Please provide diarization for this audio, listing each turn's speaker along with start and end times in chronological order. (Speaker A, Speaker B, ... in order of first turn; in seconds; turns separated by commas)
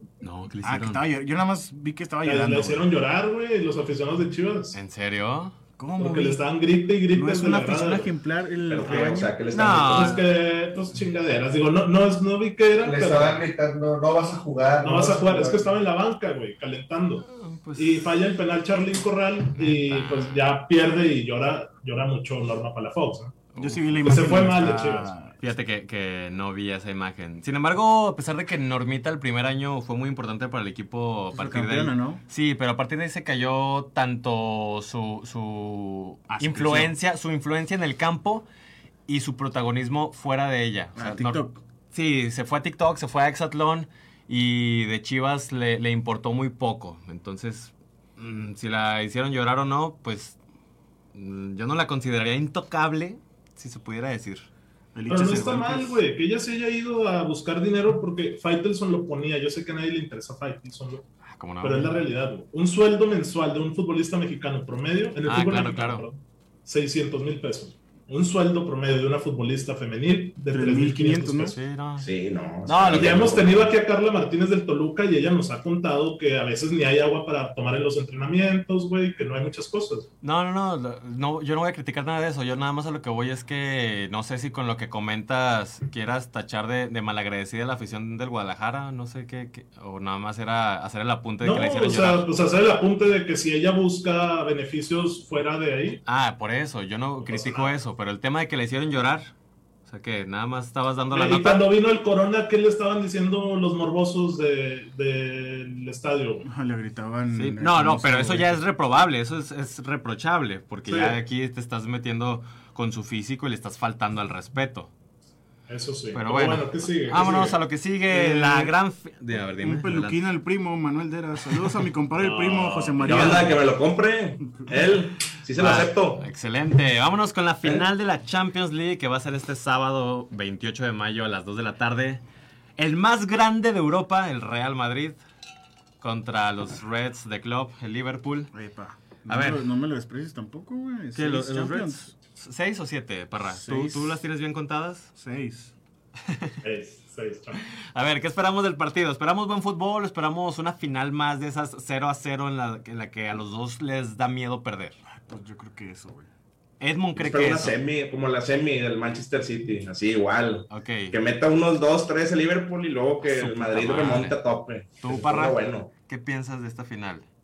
Speaker A: 0.2-1.1, Speaker B: 0.6-2.9, Speaker C: 2.2-4.8, Speaker A: 4.7-5.6, Speaker B: 5.8-6.4, Speaker C: 6.0-8.1, Speaker B: 7.1-9.4, Speaker D: 8.7-10.2, Speaker A: 9.5-10.3, Speaker C: 9.7-13.4, Speaker E: 12.8-15.7, Speaker C: 14.8-23.4, Speaker A: 17.3-18.1, Speaker A: 19.6-20.4, Speaker A: 23.5-24.1, Speaker B: 23.6-25.4, Speaker C: 24.0-25.1, Speaker A: 25.4-38.5, Speaker B: 31.3-32.2, Speaker B: 36.3-37.0, Speaker A: 39.1-50.4, Speaker B: 41.0-41.6, Speaker A: 51.1-54.5, Speaker B: 54.9-56.0, Speaker C: 55.1-61.0, Speaker A: 61.3-62.0, Speaker C: 61.6-71.6, Speaker A: 65.2-66.1, Speaker B: 70.5-71.5, Speaker A: 71.5-72.1, Speaker D: 72.0-73.7, Speaker A: 72.7-73.3, Speaker C: 72.8-80.1, Speaker A: 80.2-92.3, Speaker C: 91.4-96.0, Speaker A: 96.0-99.3, Speaker C: 97.2-97.7, Speaker A: 99.9-101.7, Speaker C: 101.1-106.5, Speaker B: 106.4-108.6, Speaker A: 107.3-114.9, Speaker C: 110.9-111.2, Speaker C: 115.7-117.6, Speaker A: 116.1-120.2, Speaker B: 118.1-118.7, Speaker B: 119.6-123.6, Speaker C: 122.2-123.5, Speaker D: 123.0-126.2, Speaker A: 125.6-132.2, Speaker A: 132.8-135.2, Speaker A: 136.0-138.5, Speaker B: 138.5-142.1, Speaker A: 139.3-139.6, Speaker A: 141.2-145.1, Speaker B: 143.5-144.2, Speaker B: 145.2-145.7, Speaker A: 146.2-146.6, Speaker C: 146.6-147.6, Speaker A: 147.8-155.0, Speaker B: 155.1-156.3, Speaker A: 156.8-157.8, Speaker D: 157.2-165.9, Speaker A: 160.7-161.2, Speaker A: 163.2-164.4, Speaker A: 165.0-167.3